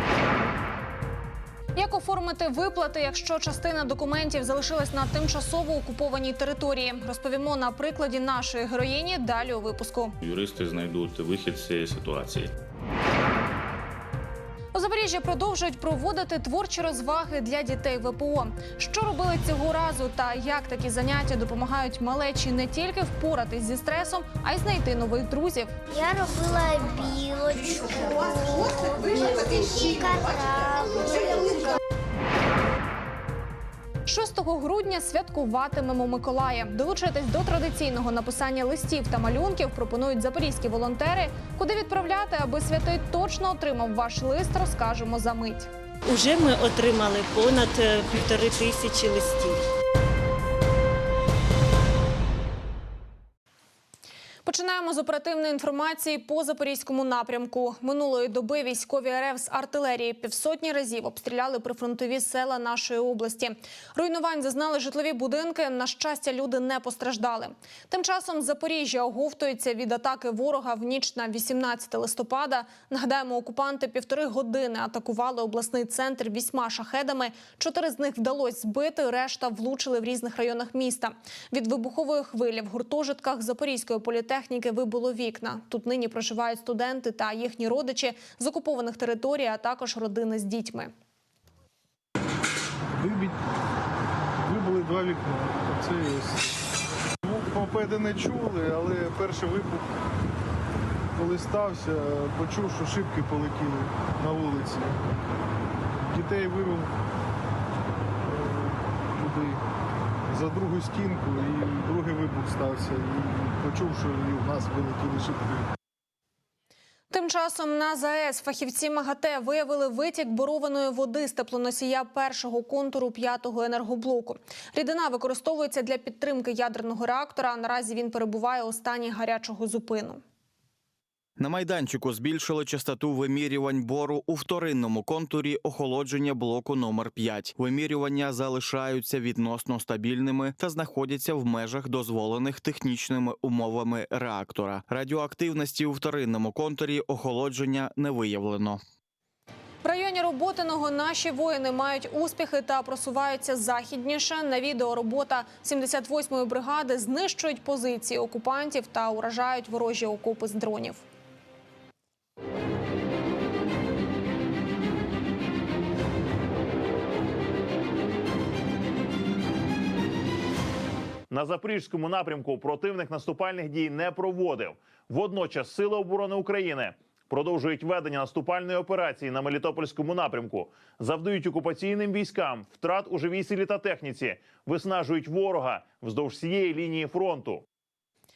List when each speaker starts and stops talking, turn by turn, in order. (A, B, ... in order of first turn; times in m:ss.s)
0:01.8-0:10.2 A
0:10.2-0:12.5 B
0:14.7-0:25.7 A
0:25.9-0:31.8 C
0:34.1-0:45.7 A
0:46.1-0:49.6 D
0:54.4-1:30.9 A
1:33.0-1:33.4 E
1:34.4-1:36.4 E
1:37.2-1:39.9 E
1:41.1-1:45.0 E
1:46.0-1:46.9 E
1:48.2-1:49.6 E
1:50.3-1:55.7 E
1:57.1-2:10.2 A
2:11.4-2:28.8 F
2:29.8-2:41.0 A
2:51.3-3:07.6 G